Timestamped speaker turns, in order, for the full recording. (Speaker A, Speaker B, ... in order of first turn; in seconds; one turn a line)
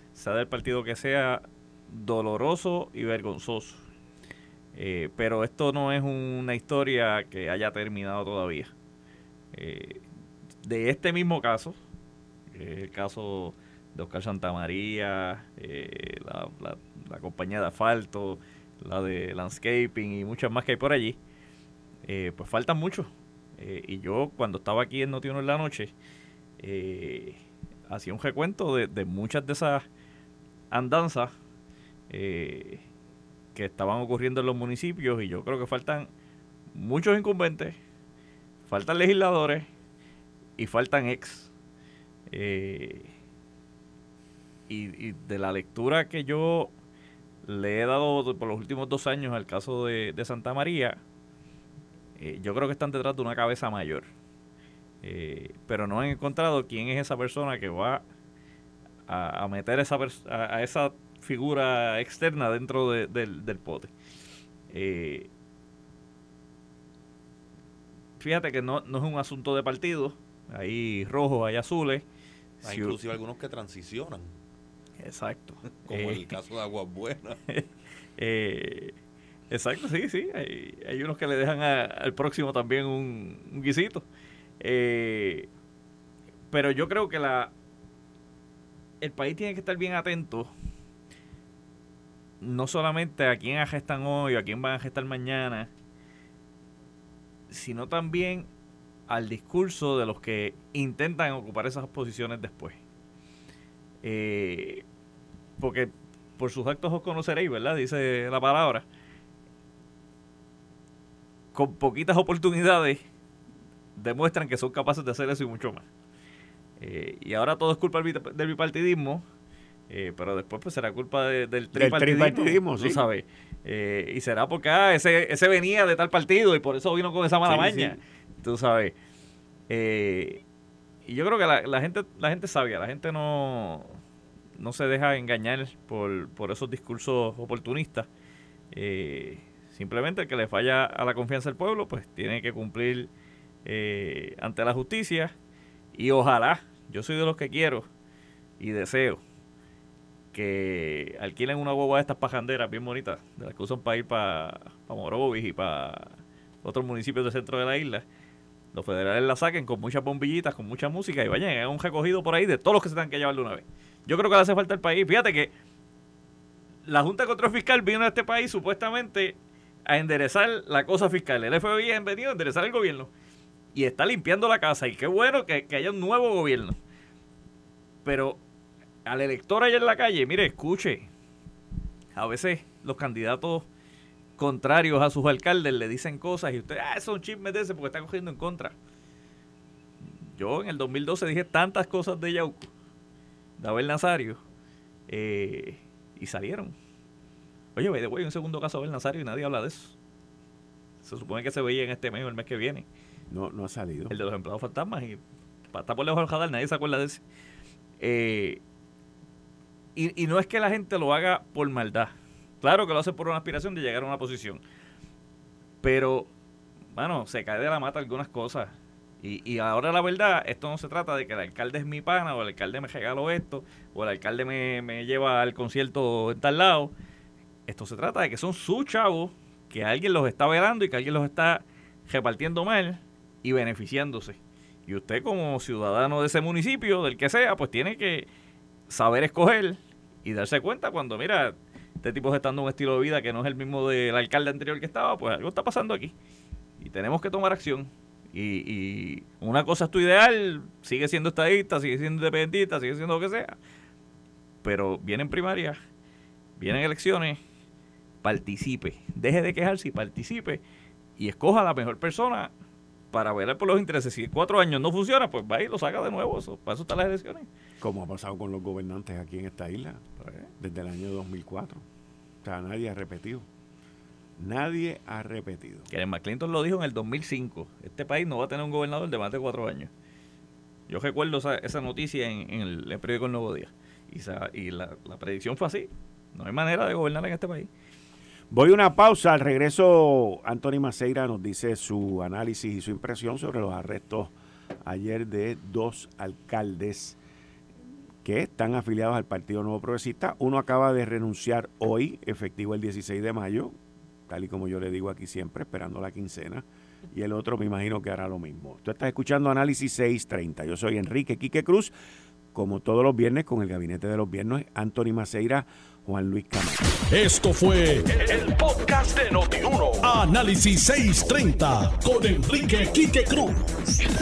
Speaker A: 0.1-3.8
Speaker A: 4.7-8.7
Speaker A: 9.5-10.1
Speaker A: 10.6-11.8
Speaker A: 12.5-21.2
Speaker A: 22.1-25.9
Speaker A: 26.6-29.8
Speaker A: 30.7-31.3
Speaker A: 32.1-32.8
Speaker A: 33.5-36.1
Speaker A: 36.7-37.8
Speaker A: 38.6-39.7
Speaker A: 40.6-41.5
Speaker A: 42.3-43.1
Speaker A: 44.7-46.7
Speaker A: 47.4-51.0
Speaker A: 52.2-54.1
Speaker A: 55.0-58.0
Speaker A: 59.1-63.9
Speaker A: 64.7-65.3
Speaker A: 68.2-72.0
Speaker A: 72.6-73.0
Speaker B: 72.6-74.3
Speaker A: 75.0-76.3
Speaker B: 75.7-77.4
Speaker A: 77.5-79.0
Speaker A: 79.5-84.1
Speaker A: 84.6-85.5
Speaker A: 86.5-87.5
Speaker A: 89.0-90.5
Speaker A: 92.4-95.7
Speaker A: 97.5-98.5
Speaker A: 99.1-102.8
Speaker A: 104.0-104.8
Speaker A: 105.6-108.9
Speaker A: 111.5-113.0
Speaker A: 114.0-115.9
Speaker A: 116.8-119.2
Speaker A: 119.9-128.9
Speaker C: 121.7-123.0
Speaker C: 127.5-128.0
Speaker A: 129.7-130.4
Speaker A: 131.1-134.0
Speaker A: 134.6-138.1
Speaker A: 138.7-143.1
Speaker A: 143.7-145.3
Speaker A: 145.9-147.9
Speaker A: 148.6-149.2
Speaker A: 150.3-158.0
Speaker A: 158.7-165.5
Speaker A: 166.9-173.1
Speaker A: 173.7-176.8
Speaker A: 178.0-178.4
Speaker A: 179.1-181.1
Speaker A: 182.2-183.7
Speaker A: 184.4-188.8
Speaker A: 190.3-192.7
Speaker A: 193.6-194.4
Speaker A: 195.1-196.8
Speaker A: 197.8-200.0
Speaker A: 201.0-202.9
Speaker C: 203.3-204.2
Speaker A: 204.1-205.2
Speaker A: 205.7-207.2
Speaker A: 208.0-208.6
Speaker A: 209.9-214.6
Speaker A: 215.8-216.3
Speaker A: 216.9-226.9
Speaker A: 227.7-238.3
Speaker A: 238.9-246.2
Speaker A: 246.8-253.6
Speaker A: 254.6-255.8
Speaker A: 256.6-257.4
Speaker A: 258.2-260.6
Speaker A: 261.2-262.5
Speaker A: 263.1-267.5
Speaker C: 267.8-270.0
Speaker A: 270.2-270.5
Speaker C: 270.6-271.9
Speaker C: 272.4-273.5
Speaker C: 274.4-275.9
Speaker A: 275.9-279.9
Speaker A: 280.9-287.7
Speaker C: 288.5-294.3
Speaker C: 294.8-297.2
Speaker C: 298.2-303.8
Speaker C: 304.3-311.9
Speaker C: 312.5-316.8
Speaker D: 317.1-323.7